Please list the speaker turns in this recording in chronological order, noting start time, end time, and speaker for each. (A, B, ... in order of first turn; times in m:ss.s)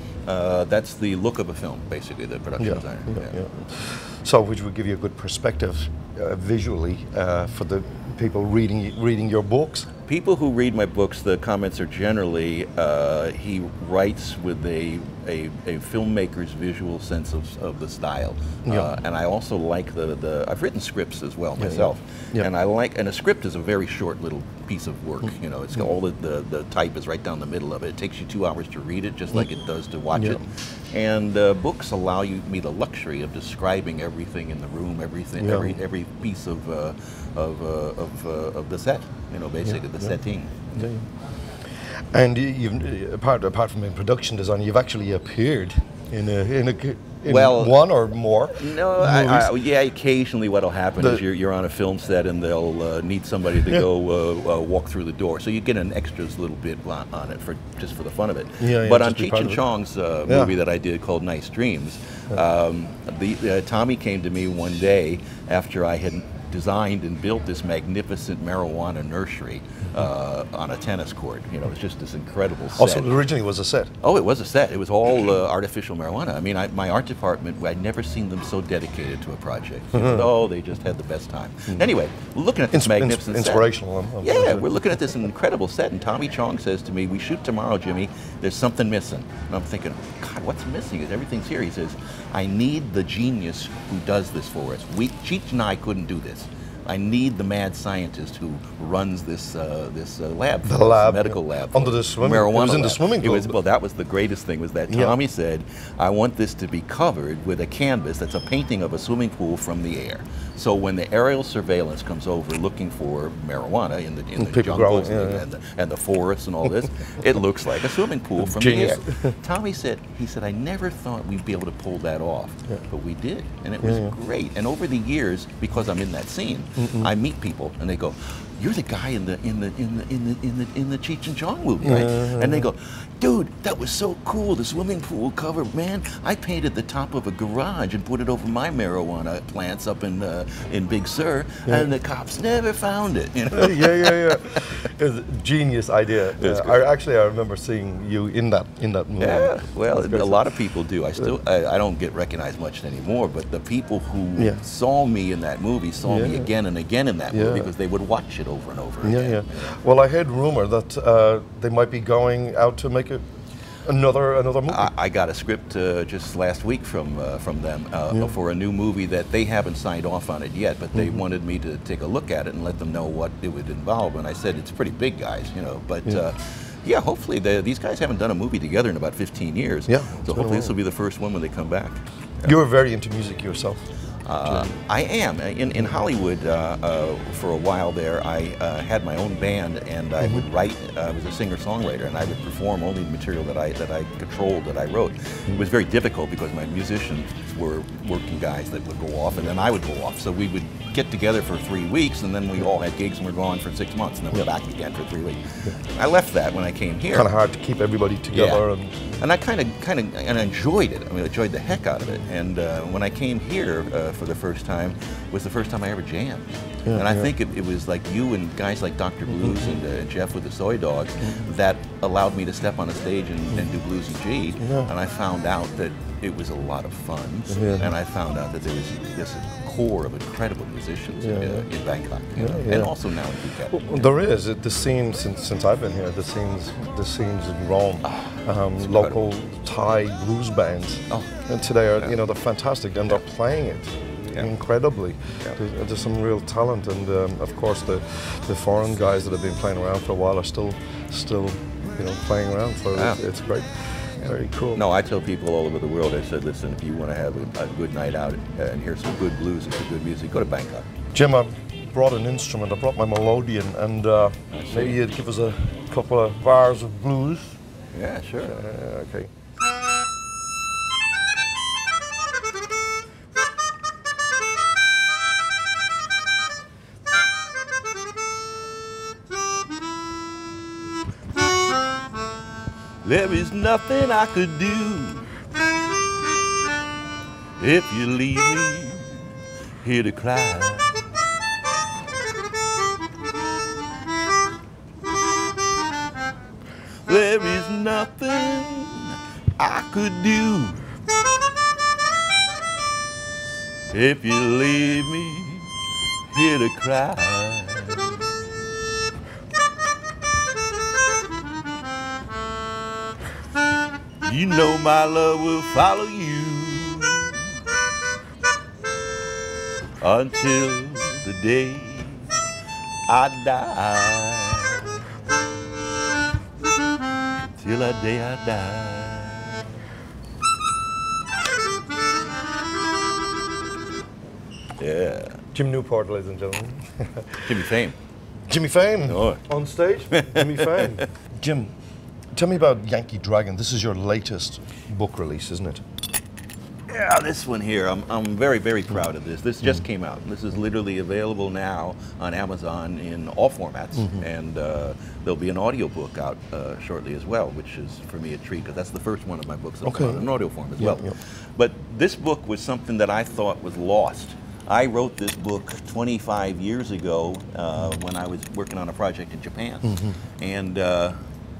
0:00.2-0:03.4 A
0:02.6-0:09.9 B
0:10.1-0:40.9 A
0:18.6-0:18.9 B
0:21.6-0:22.5 B
0:30.1-0:30.4 B
0:35.4-0:35.8 B
0:40.8-0:41.1 B
0:41.7-0:49.6 B
0:47.2-0:47.8 A
0:48.5-1:13.2 A
0:58.6-0:59.6 B
1:00.2-1:00.5 B
1:12.7-1:13.9 B
1:14.0-1:23.7 A
1:19.9-1:20.3 B
1:22.7-1:24.8 B
1:24.2-2:24.7 A
1:40.6-1:43.6 B
1:44.9-1:45.2 B
1:54.4-1:55.4 B
1:58.4-1:59.4 B
2:03.8-2:04.2 B
2:06.8-2:07.1 B
2:11.8-2:12.7 B
2:23.5-2:30.5 B
2:26.4-2:26.8 A
2:29.2-2:39.8 A
2:34.4-2:34.6 B
2:36.0-2:36.5 B
2:37.3-2:37.7 B
2:39.0-2:43.3 B
2:43.8-2:44.9 B
2:44.7-3:02.5 A
2:59.9-3:00.7 B
3:02.4-3:03.9 B
3:04.2-3:27.3 A
3:04.4-3:04.7 B
3:10.2-3:10.4 B
3:27.1-3:29.1 B
3:28.3-3:28.7 A
3:29.2-3:54.1 A
3:36.8-3:37.3 B
3:39.4-3:39.7 B
3:44.6-3:44.9 B
3:47.5-3:47.9 B
3:51.2-3:51.6 B
3:52.4-3:52.9 B
3:53.7-4:14.8 B
3:58.0-3:59.2 A
4:12.9-4:13.2 A
4:14.7-4:20.9 A
4:21.1-4:27.6 B
4:24.5-4:25.0 A
4:27.9-4:28.6 A
4:28.4-4:29.3 B
4:43.0-4:45.3 A
4:47.6-4:51.0 A
4:57.1-5:00.9 A
5:03.9-5:05.7 A
5:06.3-5:08.2 A
5:14.2-5:17.6 A
5:20.0-5:22.4 A
5:23.1-5:25.1 A
5:27.5-5:29.6 A
5:34.8-5:35.4 A
5:35.5-5:37.7 B
5:37.4-5:37.9 A
5:38.5-5:41.7 B
5:39.0-5:39.4 A
5:40.1-5:41.1 A
5:42.3-5:45.8 B
5:46.9-6:11.2 A
5:59.8-6:01.1 B
6:09.8-6:10.2 B